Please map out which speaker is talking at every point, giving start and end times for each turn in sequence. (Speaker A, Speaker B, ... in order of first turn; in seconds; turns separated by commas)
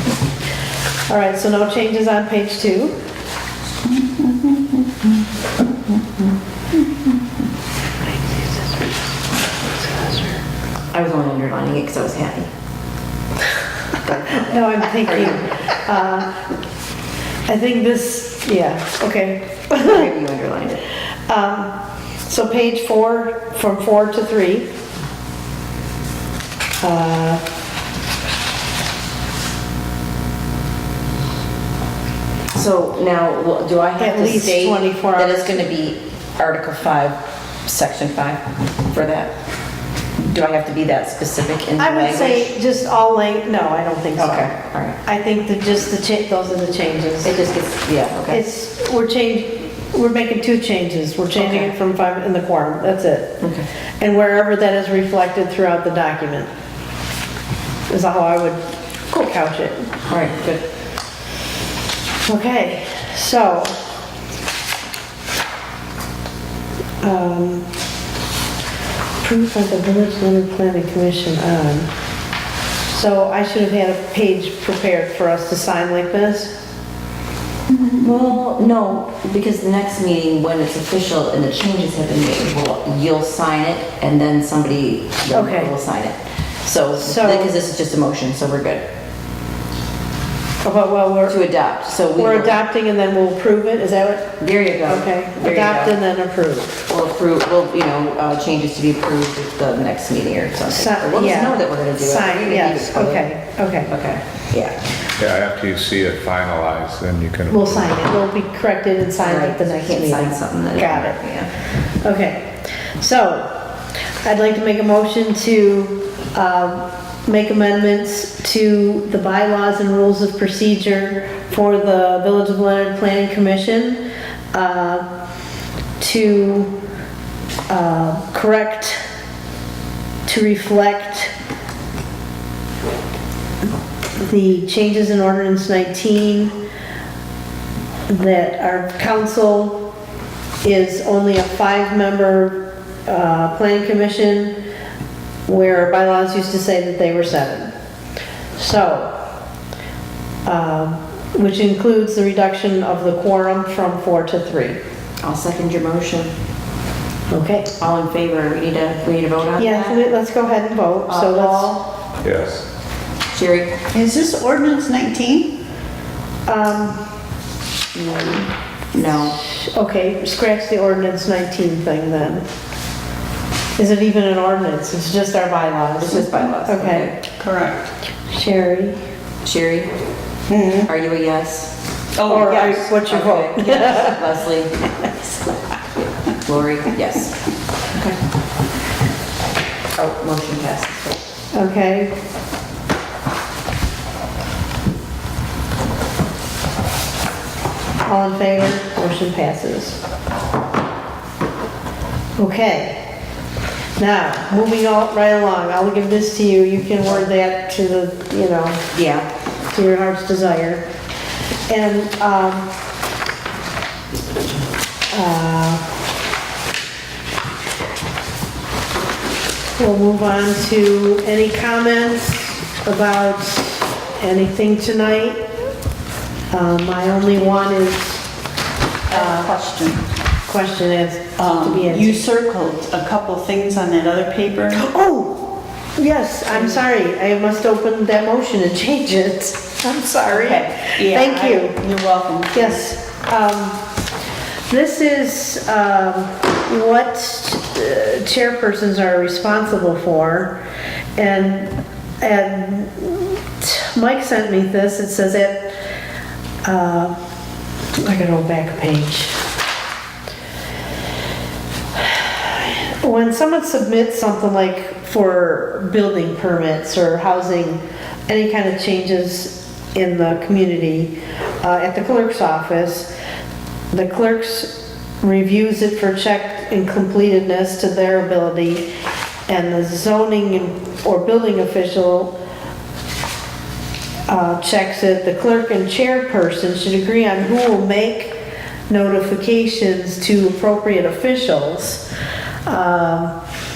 Speaker A: 1.1-3.0, Speaker B: 4.0-4.6, Speaker A: 8.1-8.9, Speaker A: 9.6-10.4, Speaker C: 10.9-12.5, Speaker C: 14.0-15.7, Speaker A: 14.4-16.3, Speaker A: 17.4-20.1, Speaker C: 19.8-20.8, Speaker A: 21.3-21.7, Speaker A: 22.2-24.7, Speaker A: 26.8-27.4, Speaker C: 32.5-39.3, Speaker A: 34.0-35.6, Speaker C: 40.2-42.5, Speaker A: 41.8-44.5, Speaker C: 44.2-45.0, Speaker A: 45.0-47.4, Speaker C: 47.2-48.4, Speaker A: 48.3-53.4, Speaker C: 51.4-51.7, Speaker C: 53.4-53.7, Speaker A: 54.0-56.5, Speaker A: 57.9-59.9, Speaker C: 60.1-60.6, Speaker A: 62.2-63.8, Speaker A: 67.0-67.6, Speaker A: 69.2-71.9, Speaker A: 72.9-76.5, Speaker C: 77.7-88.8, Speaker A: 85.3-85.7, Speaker A: 87.0-87.5, Speaker A: 90.6-91.4, Speaker C: 91.3-92.6, Speaker A: 92.1-94.3, Speaker C: 94.4-95.9, Speaker A: 94.8-96.8, Speaker C: 96.9-103.2, Speaker A: 100.7-103.9, Speaker C: 103.9-104.8, Speaker D: 105.2-108.0, Speaker A: 107.5-111.2, Speaker C: 109.2-111.5, Speaker A: 112.0-113.5, Speaker A: 114.2-125.1, Speaker A: 126.0-126.7, Speaker A: 127.7-129.0, Speaker A: 130.2-131.3, Speaker A: 134.2-136.5, Speaker A: 138.1-139.8, Speaker A: 140.6-144.6, Speaker A: 145.5-147.7, Speaker A: 148.6-149.2, Speaker A: 150.4-154.8, Speaker C: 155.2-156.3, Speaker A: 157.3-157.7, Speaker C: 157.8-160.0, Speaker A: 159.6-161.7, Speaker B: 161.1-161.4, Speaker C: 161.1-161.8, Speaker D: 162.2-162.6, Speaker C: 163.3-163.7, Speaker B: 163.9-165.5, Speaker A: 166.5-167.0, Speaker C: 168.0-169.4, Speaker A: 169.4-172.4, Speaker A: 173.8-177.1, Speaker C: 176.0-177.2, Speaker B: 177.4-177.8, Speaker A: 178.3-179.0, Speaker C: 179.4-179.9, Speaker B: 180.5-180.9, Speaker C: 180.8-181.7, Speaker B: 182.2-182.8, Speaker A: 182.2-184.2, Speaker C: 182.5-185.0, Speaker C: 186.4-188.2, Speaker C: 190.0-191.2, Speaker A: 191.5-192.1, Speaker A: 198.0-200.0, Speaker A: 202.4-203.1, Speaker A: 204.0-208.8, Speaker C: 208.9-209.2, Speaker A: 209.7-210.8, Speaker A: 211.7-212.7, Speaker A: 215.1-215.8, Speaker A: 219.8-225.4, Speaker A: 226.5-228.2, Speaker B: 229.1-230.0, Speaker A: 229.1-229.6, Speaker A: 230.5-232.2, Speaker B: 231.4-234.8, Speaker A: 234.7-241.8, Speaker B: 240.2-242.8, Speaker A: 242.5-243.8, Speaker A: 244.7-250.6, Speaker A: 251.2-255.7, Speaker A: 256.6-257.1, Speaker A: 257.9-259.4, Speaker A: 262.0-273.1, Speaker A: 273.9-278.9, Speaker A: 279.5-282.3, Speaker A: 284.3-288.3, Speaker A: 288.9-292.0, Speaker A: 292.6-293.3